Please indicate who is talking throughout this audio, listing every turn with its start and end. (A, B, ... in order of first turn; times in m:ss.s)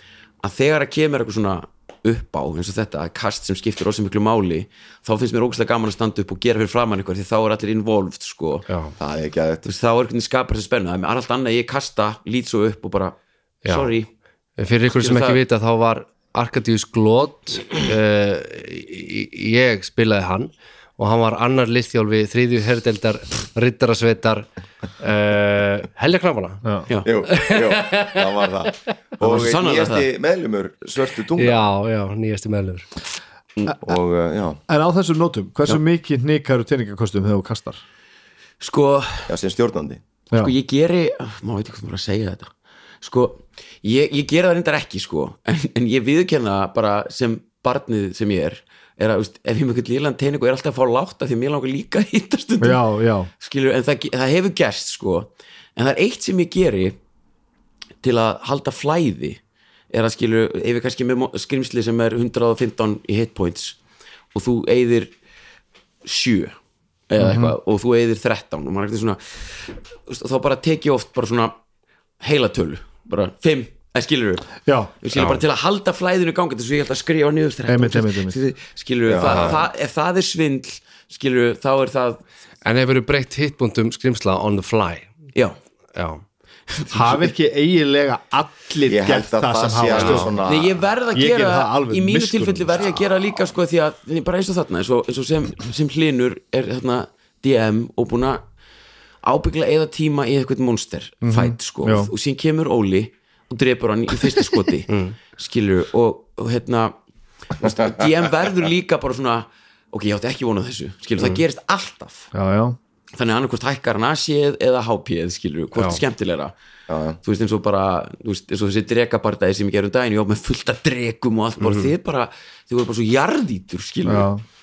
0:00.4-0:08.7 A
0:08.7-0:08.9 B
0:09.0-0:09.7 C
0:09.6-0:14.1 A
0:13.6-0:13.9 B
0:14.6-0:24.5 B
0:14.9-0:15.4 A
0:25.0-0:26.6 B
0:26.6-0:26.9 D
0:27.0-0:31.7 C
0:27.3-0:28.9 B
0:29.2-0:30.1 A
0:31.4-0:32.9 B
0:33.8-0:34.6 C
0:34.7-0:37.8 D
0:38.6-0:39.3 A
0:39.3-0:40.0 C
0:40.3-0:42.5 A
0:43.0-0:52.9 A
0:52.6-0:53.3 D
0:53.4-0:57.0 A
0:58.0-0:59.4 A
0:59.9-1:03.8 A
1:04.3-1:05.1 A
1:06.0-1:06.6 A
1:07.1-1:11.6 A
1:07.2-1:07.6 D
1:12.2-1:22.2 A
1:14.7-1:15.4 D
1:17.7-1:18.4 D
1:19.1-1:19.6 C
1:19.2-1:19.6 B
1:22.6-1:25.1 B
1:26.0-1:26.2 B
1:26.7-1:27.3 A
1:26.9-1:30.4 D
1:28.9-1:30.8 C
1:29.9-1:38.4 A
1:31.1-1:33.0 D
1:39.2-1:47.0 A
1:41.2-1:42.1 D
1:44.9-1:45.2 B
1:47.6-1:52.3 A
1:52.3-1:52.8 D
1:53.2-1:56.5 A
1:55.8-1:56.0 B
1:56.9-1:57.2 C
1:57.2-2:04.3 A
2:01.6-2:01.9 B
2:04.0-2:04.4 D